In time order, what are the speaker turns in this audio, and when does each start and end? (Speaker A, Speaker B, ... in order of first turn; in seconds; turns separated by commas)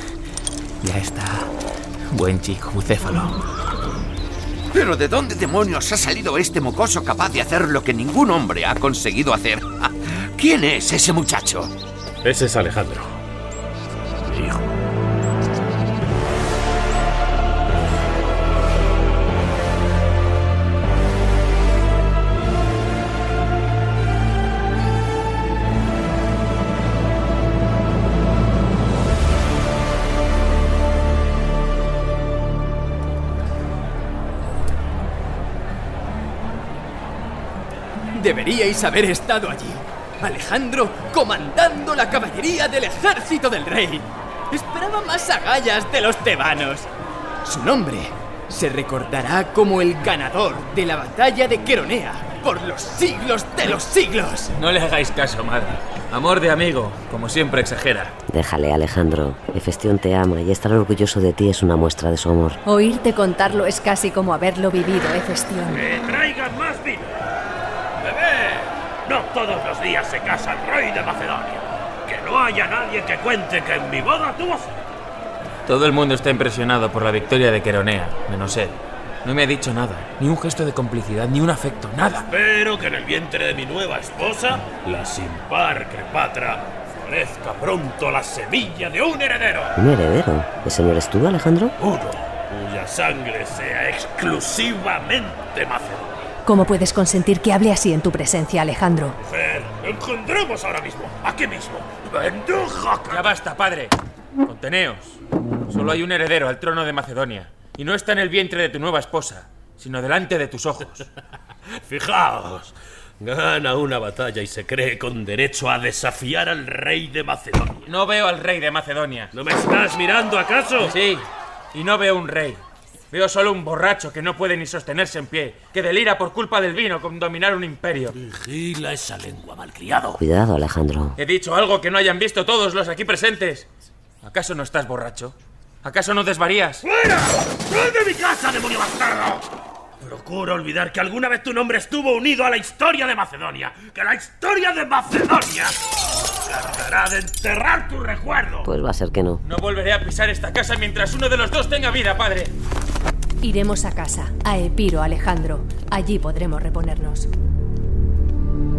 Speaker A: 0.8-1.5, Speaker A: 2.1-3.4, Speaker B: 4.7-11.7, Speaker C: 12.2-13.2, Speaker C: 14.3-14.7, Speaker D: 38.1-46.9, Speaker D: 47.4-54.5, Speaker A: 54.5-58.1, Speaker E: 58.3-62.6, Speaker F: 62.6-65.8, Speaker C: 65.7-67.2, Speaker C: 68.0-74.7, Speaker A: 75.7-82.3, Speaker C: 82.3-89.7, Speaker E: 89.8-91.7, Speaker C: 91.8-96.2, Speaker F: 96.5-99.2, Speaker C: 99.2-103.3, Speaker A: 103.1-111.0, Speaker C: 111.8-117.9, Speaker A: 117.9-119.3, Speaker C: 119.3-120.9, Speaker A: 120.8-128.1, Speaker C: 128.2-130.2, Speaker E: 130.2-131.2, Speaker A: 131.2-133.7, Speaker A: 134.2-136.8, Speaker C: 136.8-139.4, Speaker C: 140.0-145.8, Speaker C: 146.4-148.7, Speaker E: 148.6-149.4, Speaker A: 149.4-152.5, Speaker F: 153.4-157.3